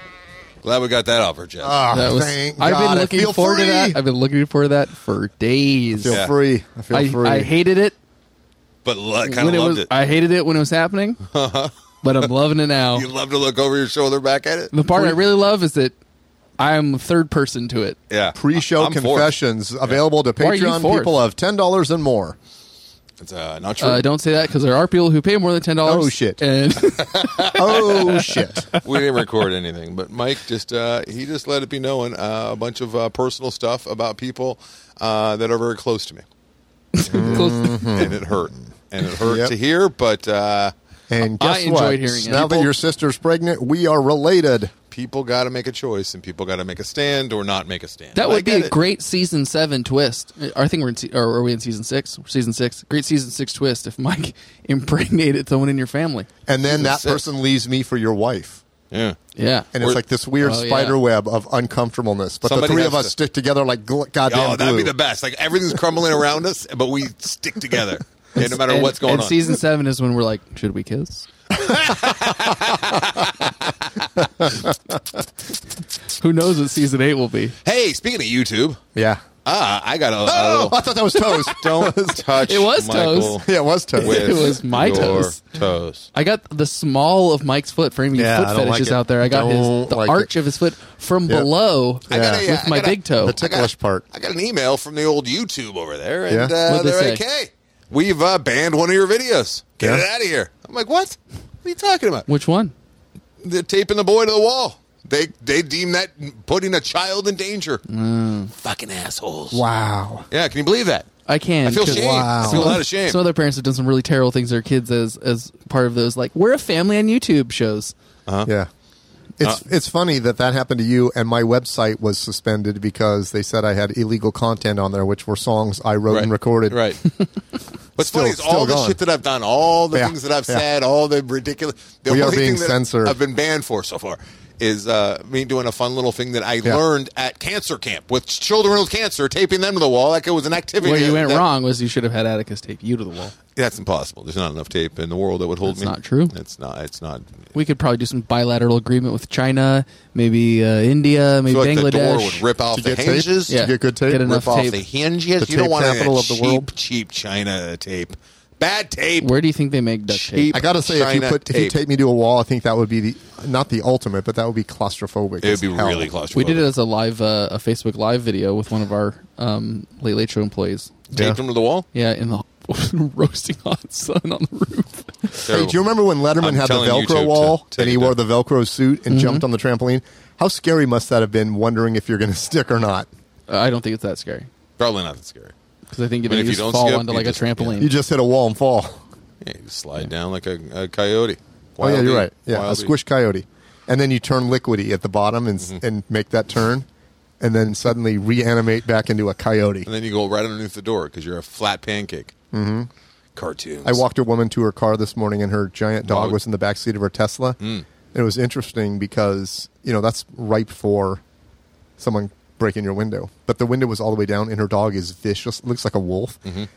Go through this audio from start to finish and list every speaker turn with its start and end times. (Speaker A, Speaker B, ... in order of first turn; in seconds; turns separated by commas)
Speaker A: 0.6-1.8, Speaker B: 1.6-4.0, Speaker C: 1.9-6.2, Speaker B: 5.9-7.5, Speaker C: 6.9-8.0, Speaker A: 8.8-9.9, Speaker C: 9.2-11.2, Speaker A: 11.3-12.3, Speaker C: 12.0-13.1, Speaker A: 12.9-15.1, Speaker C: 14.7-16.0, Speaker C: 16.6-18.0, Speaker A: 18.1-20.0, Speaker B: 18.3-22.4, Speaker C: 20.4-21.2, Speaker A: 23.2-24.0, Speaker C: 23.8-28.8, Speaker B: 25.8-26.4, Speaker A: 27.0-28.1, Speaker B: 27.5-28.7, Speaker A: 28.8-36.2, Speaker C: 36.9-38.0, Speaker B: 37.1-38.3, Speaker A: 37.1-40.7, Speaker B: 39.2-39.5, Speaker B: 41.1-44.7, Speaker C: 41.2-42.7, Speaker A: 44.9-48.7, Speaker C: 48.1-56.3, Speaker B: 56.5-58.6, Speaker A: 56.6-57.2, Speaker A: 58.9-59.2, Speaker C: 59.3-59.7, Speaker B: 59.7-64.9, Speaker A: 59.8-60.0, Speaker C: 60.4-61.0, Speaker A: 62.4-63.1, Speaker A: 64.3-69.4, Speaker C: 68.4-71.3, Speaker A: 71.5-74.1, Speaker C: 76.2-77.5, Speaker A: 77.6-78.8, Speaker B: 78.9-79.2, Speaker A: 79.4-80.8, Speaker B: 80.2-82.4, Speaker A: 81.3-83.5, Speaker C: 82.4-83.4, Speaker B: 83.2-85.0, Speaker C: 83.9-85.4, Speaker A: 84.0-86.1, Speaker C: 86.1-93.4, Speaker B: 88.1-90.3, Speaker B: 92.1-92.5, Speaker A: 92.1-102.3, Speaker B: 93.2-94.0, Speaker B: 96.3-96.5, Speaker C: 96.6-97.2, Speaker B: 99.8-100.0, Speaker C: 102.3-102.7, Speaker A: 103.4-107.8, Speaker C: 107.9-108.5, Speaker A: 108.5-109.6, Speaker B: 109.5-110.3, Speaker A: 110.3-111.0, Speaker C: 111.2-117.9, Speaker A: 111.6-113.2, Speaker B: 111.8-112.8, Speaker B: 119.4-126.8, Speaker A: 126.1-127.0, Speaker A: 128.0-141.4, Speaker B: 128.0-129.0, Speaker B: 129.9-130.6, Speaker B: 132.1-133.2, Speaker C: 140.8-143.3, Speaker A: 143.6-147.4, Speaker C: 145.7-146.3, Speaker C: 147.5-152.4, Speaker A: 151.5-153.6, Speaker B: 152.7-154.3, Speaker C: 153.5-154.8, Speaker A: 154.2-159.4, Speaker B: 155.4-156.7, Speaker C: 159.2-160.6, Speaker A: 160.1-161.8, Speaker B: 160.5-166.1, Speaker A: 165.4-166.7, Speaker C: 166.3-170.9, Speaker A: 171.1-171.9, Speaker B: 171.1-171.4, Speaker C: 171.9-175.4, Speaker A: 175.4-175.8, Speaker B: 175.5-183.1, Speaker A: 176.4-178.2, Speaker C: 179.1-179.4, Speaker C: 183.5-184.5, Speaker A: 184.8-185.5, Speaker C: 185.9-187.9, Speaker A: 186.2-187.8, Speaker B: 187.8-189.0, Speaker A: 189.4-192.9, Speaker B: 191.8-196.9, Speaker B: 197.4-199.9, Speaker A: 199.8-202.3, Speaker B: 202.5-202.9, Speaker A: 203.3-204.0, Speaker B: 203.8-207.6, Speaker A: 206.0-206.4, Speaker A: 207.6-207.8, Speaker B: 208.1-211.2, Speaker B: 212.0-216.4